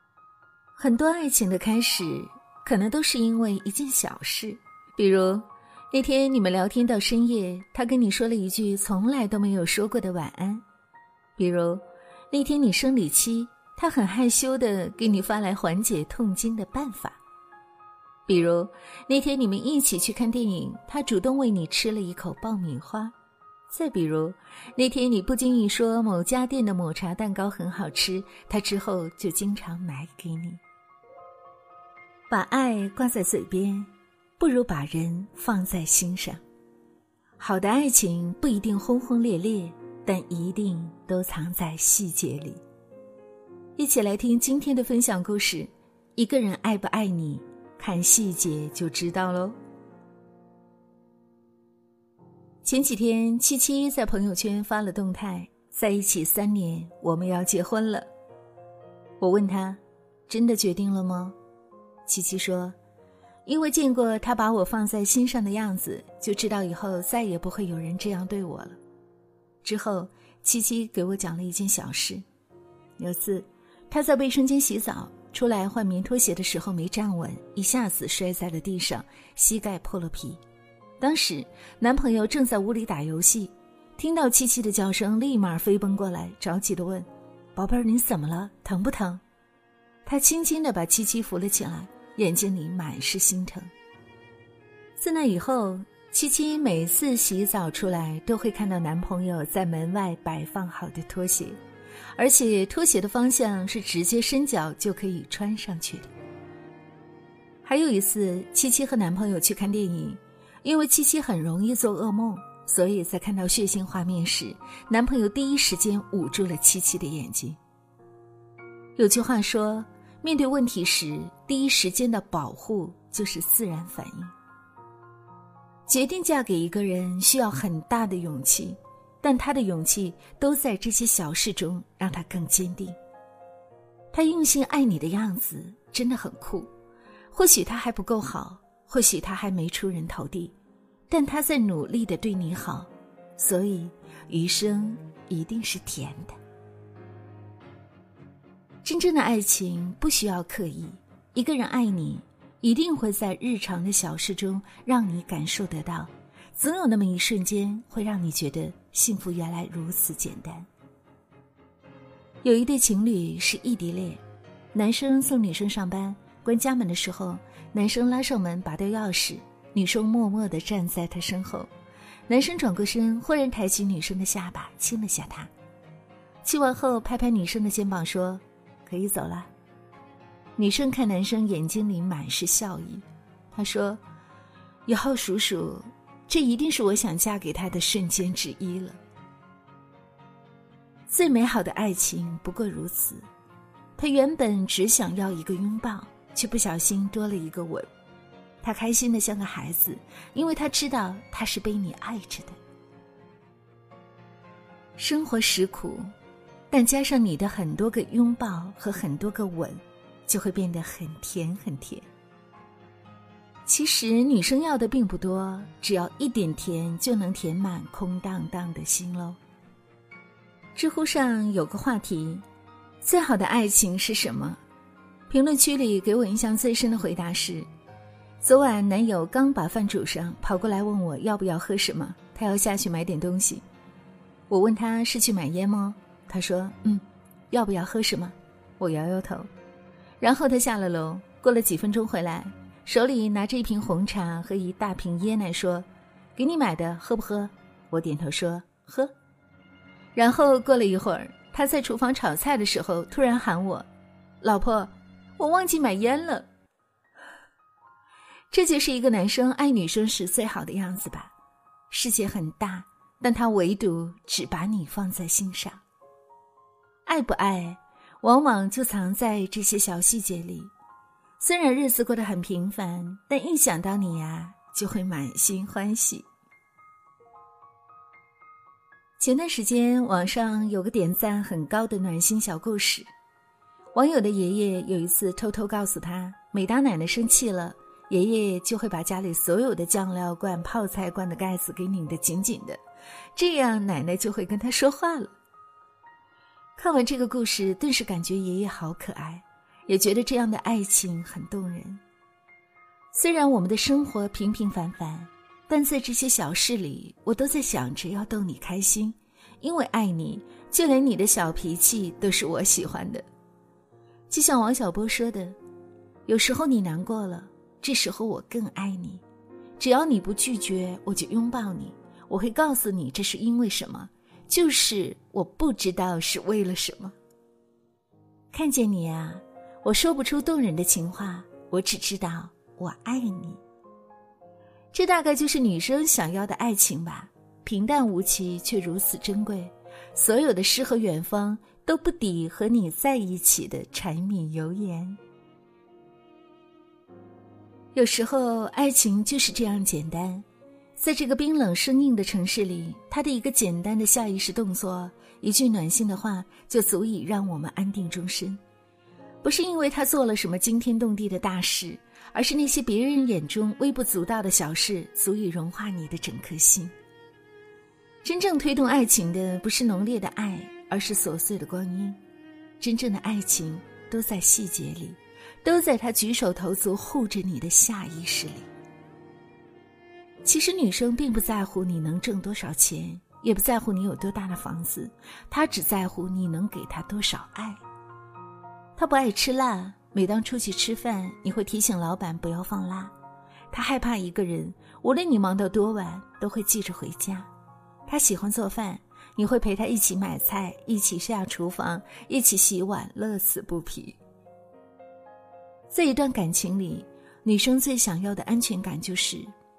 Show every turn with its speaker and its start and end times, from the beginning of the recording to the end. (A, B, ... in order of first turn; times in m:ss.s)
0:00.8-0:10.6 A
0:11.4-0:17.2 A
0:18.3-0:23.1 A
0:23.7-0:30.6 A
0:32.3-0:36.4 A
0:37.4-0:42.6 A
0:43.8-0:49.6 A
0:52.6-0:58.1 A
0:59.2-1:01.4 A
1:02.1-1:02.8 A
1:03.4-1:08.8 A
1:09.6-1:12.2 A
1:13.0-1:20.4 A
1:21.0-1:29.2 A
1:30.0-1:33.7 A
1:35.0-1:41.6 A
1:42.2-1:46.1 A
1:47.6-1:57.6 A
1:59.0-2:04.4 A
2:05.9-2:13.0 A
2:14.1-2:16.7 A
2:17.3-2:20.6 A
2:21.1-2:26.4 A
2:28.8-2:40.7 A
2:42.4-2:51.7 A
2:52.3-2:55.5 A
2:56.4-2:59.5 A
3:00.6-3:04.0 A
3:04.9-3:09.0 A
3:11.1-3:13.3 A
3:14.0-3:17.9 A
3:18.6-3:22.6 A
3:25.0-3:26.1 A
3:26.7-3:32.1 A
3:33.7-3:39.4 A
3:40.8-3:42.5 A
3:43.0-3:44.6 A
3:45.3-3:47.7 A
3:48.4-3:53.6 A
3:54.5-3:59.5 A
4:00.2-4:09.2 A
4:10.2-4:13.9 A
4:14.4-4:16.5 A
4:18.5-4:21.3 A
4:21.9-4:25.8 A
4:27.1-4:30.7 A
4:31.4-4:36.3 A
4:39.2-4:43.1 A
4:44.0-4:52.8 A
4:53.4-4:55.4 A
4:56.8-5:02.0 A
5:03.1-5:13.2 A
5:14.3-5:15.6 A
5:16.3-5:19.2 A
5:19.8-5:27.2 A
5:28.5-5:33.6 A
5:34.9-5:45.2 A
5:47.9-5:50.5 A
5:51.0-5:58.6 A
5:59.4-6:06.9 A
6:08.2-6:12.2 A
6:12.8-6:18.7 A
6:20.4-6:27.8 A
6:29.0-6:33.1 A
6:33.7-6:37.5 A
6:38.1-6:44.2 A
6:45.9-6:49.5 A